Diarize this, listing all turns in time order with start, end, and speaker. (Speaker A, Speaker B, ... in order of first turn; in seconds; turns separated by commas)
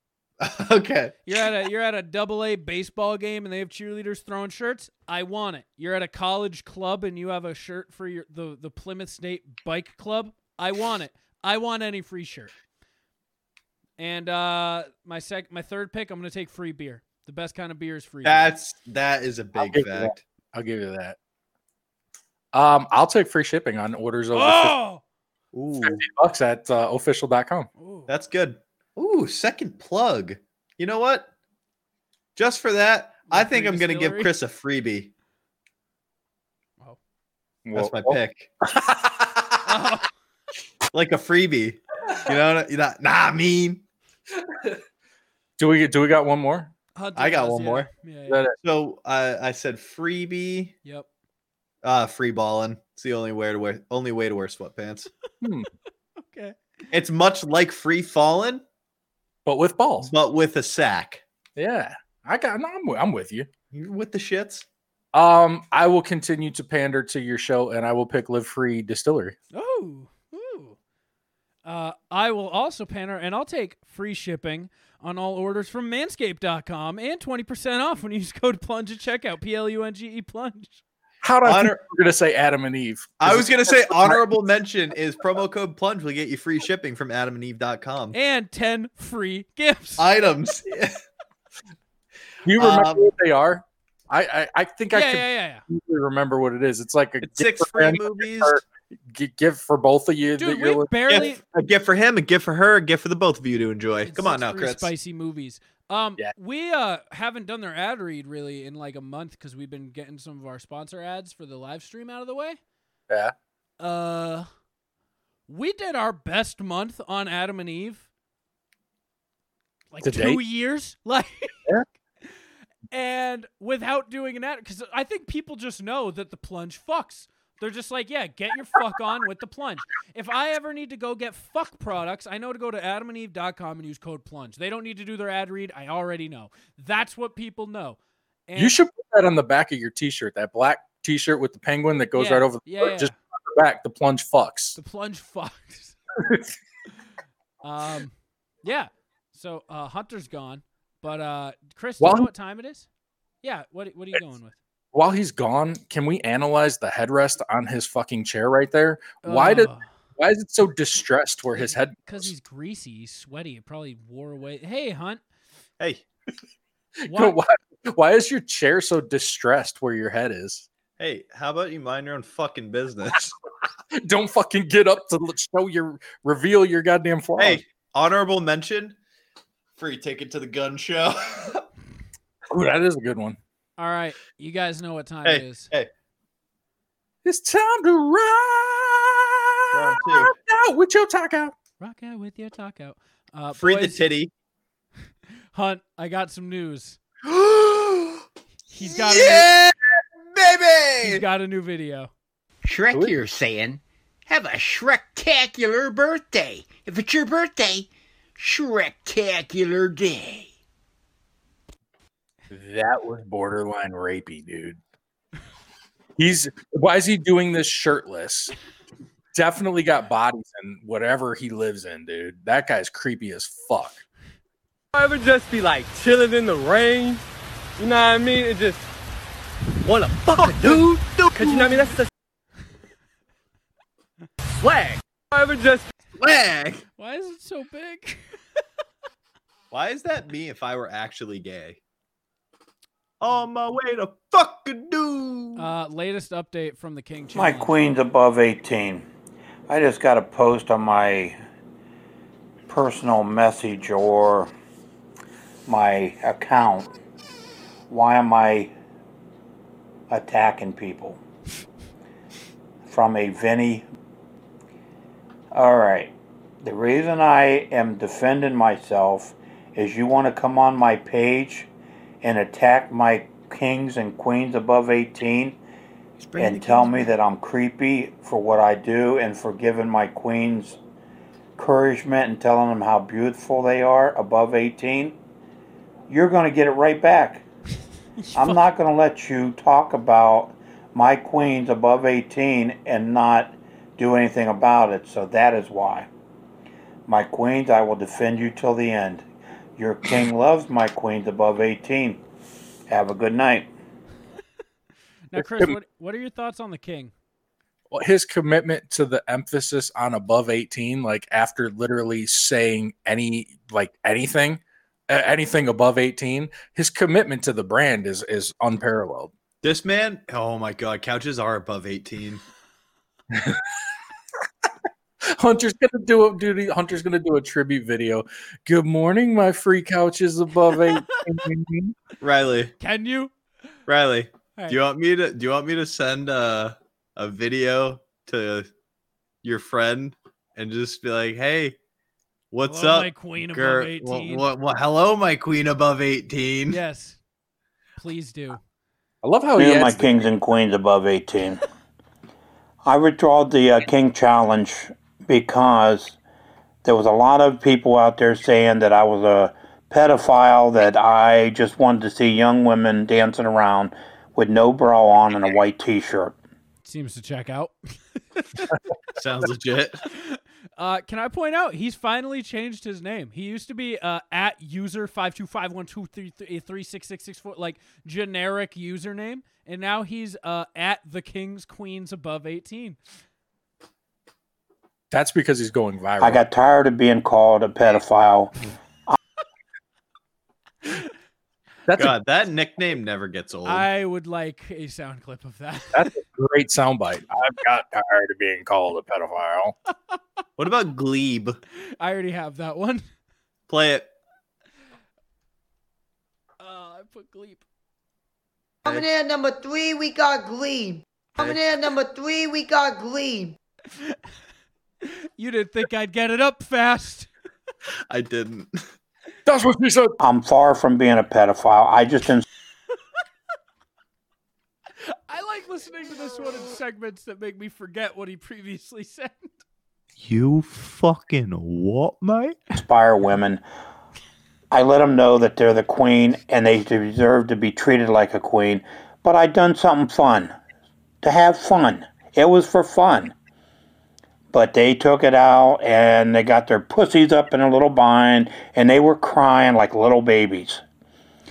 Speaker A: 0.4-1.2, Speaker B: 1.2-12.5, Speaker B: 14.0-18.5, Speaker A: 18.2-20.2, Speaker C: 19.6-21.1, Speaker C: 22.5-24.8, Speaker B: 24.3-25.0, Speaker A: 25.5-26.0, Speaker C: 25.8-27.7, Speaker B: 27.8-28.1, Speaker A: 28.1-31.3, Speaker A: 32.4-35.1, Speaker B: 33.3-34.3, Speaker C: 37.6-38.2, Speaker A: 37.7-38.5, Speaker C: 38.8-39.5, Speaker B: 39.6-40.1, Speaker A: 40.9-43.8, Speaker C: 45.6-46.7, Speaker B: 47.0-48.4, Speaker A: 47.1-47.9, Speaker C: 48.3-48.5, Speaker A: 48.6-50.7, Speaker A: 51.8-55.1, Speaker C: 55.4-55.7, Speaker B: 56.2-56.5, Speaker A: 56.9-58.6, Speaker C: 59.5-60.1, Speaker A: 60.0-61.2, Speaker C: 61.6-63.5, Speaker A: 63.7-64.6, Speaker C: 65.1-69.3, Speaker B: 69.5-70.8, Speaker B: 71.6-80.8, Speaker C: 81.2-84.2, Speaker A: 81.5-81.8, Speaker A: 83.2-88.2, Speaker B: 88.1-90.0, Speaker A: 90.0-91.0, Speaker C: 92.5-100.9, Speaker A: 92.6-93.1, Speaker B: 94.9-95.6, Speaker A: 97.2-98.6, Speaker B: 100.4-101.4, Speaker A: 101.1-104.9, Speaker B: 104.0-112.6, Speaker B: 113.8-114.5, Speaker B: 115.5-118.0, Speaker B: 119.9-121.5, Speaker C: 120.0-120.4, Speaker B: 122.9-138.7, Speaker C: 138.6-144.8, Speaker B: 142.1-143.1, Speaker B: 144.8-145.9, Speaker B: 147.6-152.9, Speaker C: 152.0-152.3, Speaker B: 153.4-154.6, Speaker C: 154.9-162.3, Speaker B: 159.2-159.9, Speaker B: 161.6-165.2, Speaker A: 165.8-166.0, Speaker C: 167.0-170.7, Speaker B: 167.1-167.4, Speaker A: 171.0-173.3, Speaker C: 174.0-177.6, Speaker A: 177.4-178.9, Speaker A: 179.8-181.6, Speaker C: 182.5-183.4, Speaker B: 183.8-185.7, Speaker A: 185.2-185.9, Speaker C: 187.2-191.5, Speaker A: 189.7-190.3, Speaker B: 191.8-194.1, Speaker A: 193.5-194.3, Speaker B: 195.5-197.0, Speaker A: 197.2-198.2, Speaker B: 198.7-199.5, Speaker A: 198.8-199.7, Speaker A: 200.3-201.2, Speaker B: 201.0-202.1, Speaker D: 202.6-210.5, Speaker C: 212.5-214.8, Speaker C: 216.2-218.5, Speaker C: 219.3-224.0, Speaker E: 224.9-227.2, Speaker E: 227.8-228.8, Speaker E: 229.8-232.1, Speaker A: 230.3-231.7, Speaker E: 234.6-235.9, Speaker A: 236.2-236.8, Speaker B: 237.0-238.2, Speaker A: 239.7-241.8, Speaker A: 243.2-245.6, Speaker B: 245.6-247.7, Speaker F: 247.3-249.1, Speaker F: 249.7-251.4, Speaker F: 252.7-254.5, Speaker F: 255.7-256.9, Speaker F: 257.9-258.7, Speaker F: 260.1-261.2, Speaker F: 262.8-263.9, Speaker F: 265.5-271.7, Speaker F: 272.2-275.6, Speaker A: 276.2-277.1, Speaker F: 276.4-280.8, Speaker F: 281.6-285.1, Speaker F: 286.1-287.4, Speaker B: 288.2-288.6, Speaker F: 288.3-296.1, Speaker F: 297.1-299.2, Speaker F: 299.8-302.2, Speaker F: 302.9-303.7, Speaker B: 305.3-307.1, Speaker C: 305.4-305.7, Speaker C: 307.9-319.3, Speaker A: 319.6-322.4, Speaker C: 323.3-323.6, Speaker C: 325.4-331.9, Speaker A: 332.2-332.7, Speaker B: 332.8-333.3, Speaker A: 333.9-338.7, Speaker A: 339.4-341.8, Speaker A: 342.5-346.8, Speaker B: 342.6-344.5, Speaker B: 346.7-347.2, Speaker B: 348.0-348.6, Speaker C: 349.2-350.2, Speaker F: 349.6-351.6, Speaker F: 352.8-356.2, Speaker F: 356.8-366.4, Speaker B: 366.8-367.7, Speaker B: 368.4-368.6, Speaker A: 369.1-370.0, Speaker B: 370.2-383.0, Speaker C: 385.1-386.4, Speaker F: 386.2-388.5, Speaker C: 391.9-392.1, Speaker A: 391.9-393.9, Speaker B: 393.6-396.0, Speaker C: 395.9-399.7, Speaker A: 400.6-401.6, Speaker B: 402.0-403.0, Speaker A: 403.7-404.1, Speaker B: 406.6-407.6, Speaker G: 408.8-413.6, Speaker B: 415.0-417.3, Speaker A: 418.1-418.7, Speaker C: 419.4-420.1, Speaker F: 420.2-422.4, Speaker B: 425.3-429.6, Speaker A: 430.2-432.6, Speaker F: 432.7-433.6, Speaker F: 434.7-440.5, Speaker F: 441.2-443.3, Speaker F: 444.5-450.8